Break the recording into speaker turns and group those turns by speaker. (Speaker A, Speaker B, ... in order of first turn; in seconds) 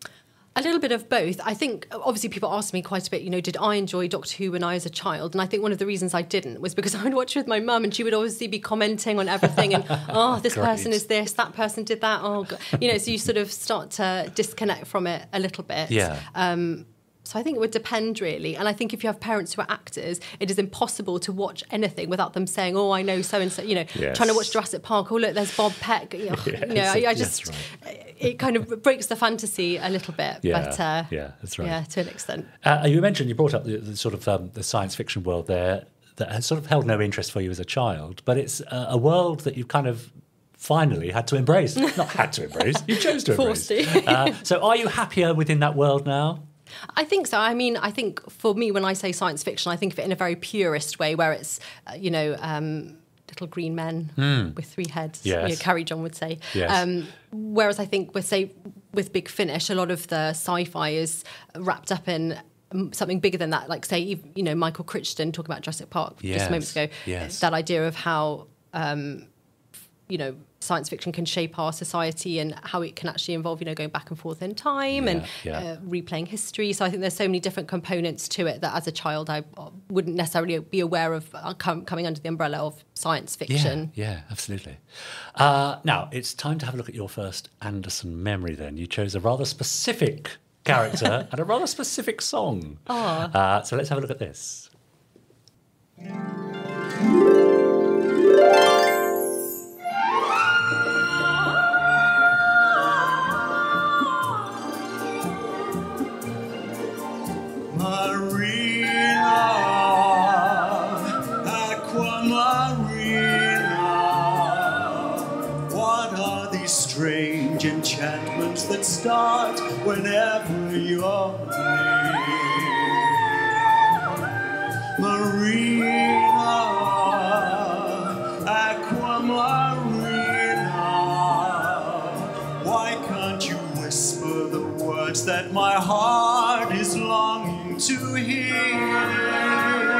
Speaker A: 0.6-32.5, 42.7-44.4, 46.9-69.3, 70.1-83.9, 92.9-93.3
Speaker B: 9.5-11.0, 15.9-16.3, 23.9-24.6, 26.3-27.7, 30.4-31.8, 32.6-46.4, 54.2-54.6, 55.2-55.6, 56.5-56.8, 66.2-67.4, 74.9-75.6, 83.5-94.7
Speaker C: 107.8-109.0, 111.7-114.0, 115.7-121.7, 125.0-125.9, 128.8-130.8, 132.7-138.6